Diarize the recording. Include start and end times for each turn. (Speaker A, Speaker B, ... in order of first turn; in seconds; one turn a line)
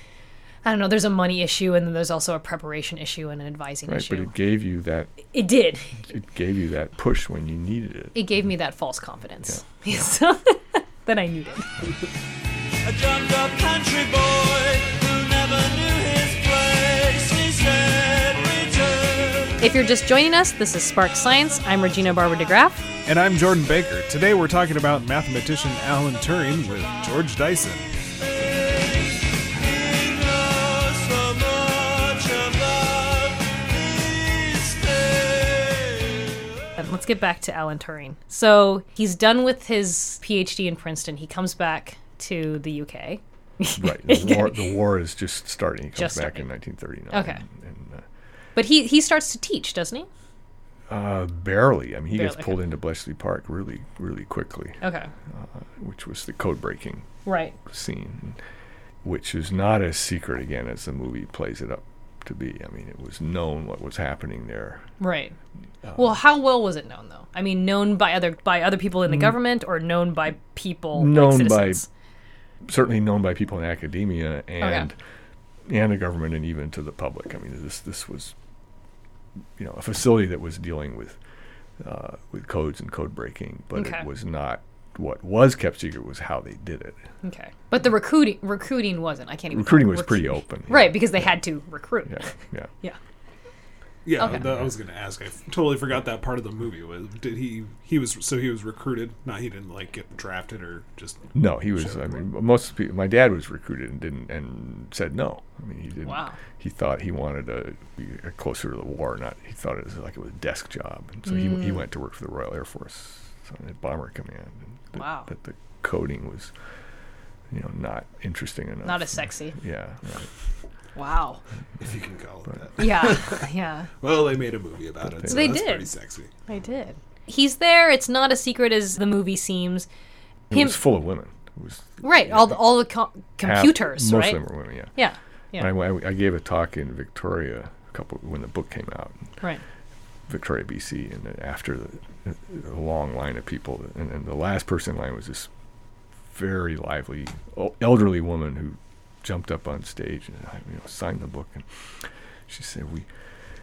Speaker A: 0.6-4.3
Speaker B: 3.9-5.2
Speaker A: 5.3-6.0
Speaker B: 6.0-8.2
Speaker A: 8.1-11.8
Speaker C: 12.8-19.6
Speaker A: 19.6-22.9
Speaker D: 23.1-27.9
Speaker C: 28.3-36.4
Speaker A: 36.8-44.8
Speaker B: 43.8-48.0
Speaker A: 46.0-46.5
Speaker A: 47.1-47.4
Speaker A: 48.5-50.1
Speaker B: 50.9-57.1
Speaker A: 52.1-52.6
Speaker A: 54.8-55.1
Speaker A: 57.2-57.6
Speaker B: 57.6-58.4
Speaker B: 59.0-64.9
Speaker A: 65.0-65.3
Speaker B: 65.8-66.2
Speaker A: 66.0-71.9
Speaker B: 70.9-71.8
Speaker B: 72.6-75.0
Speaker A: 74.6-74.9
Speaker B: 75.7-78.3
Speaker B: 79.6-81.2
Speaker B: 81.8-87.0
Speaker A: 83.7-84.0
Speaker A: 87.2-93.0
Speaker B: 89.5-91.2
Speaker B: 92.1-92.7
Speaker D: 94.0-102.1
Speaker A: 94.2-94.4
Speaker B: 94.3-94.6
Speaker B: 101.3-116.5
Speaker A: 106.0-106.3
Speaker A: 111.3-111.8
Speaker A: 114.9-115.3
Speaker B: 117.5-120.3
Speaker A: 118.8-119.5
Speaker A: 121.0-121.4
Speaker D: 121.8-123.5
Speaker A: 122.8-123.9
Speaker D: 124.0-126.3
Speaker B: 125.1-125.5
Speaker A: 125.2-125.9
Speaker A: 126.5-129.9
Speaker B: 130.5-132.6
Speaker A: 130.5-130.8
Speaker A: 132.0-134.4
Speaker B: 133.4-134.9
Speaker A: 134.9-135.7
Speaker B: 135.6-139.3
Speaker B: 140.3-145.5
Speaker B: 146.3-151.7
Speaker B: 152.5-153.1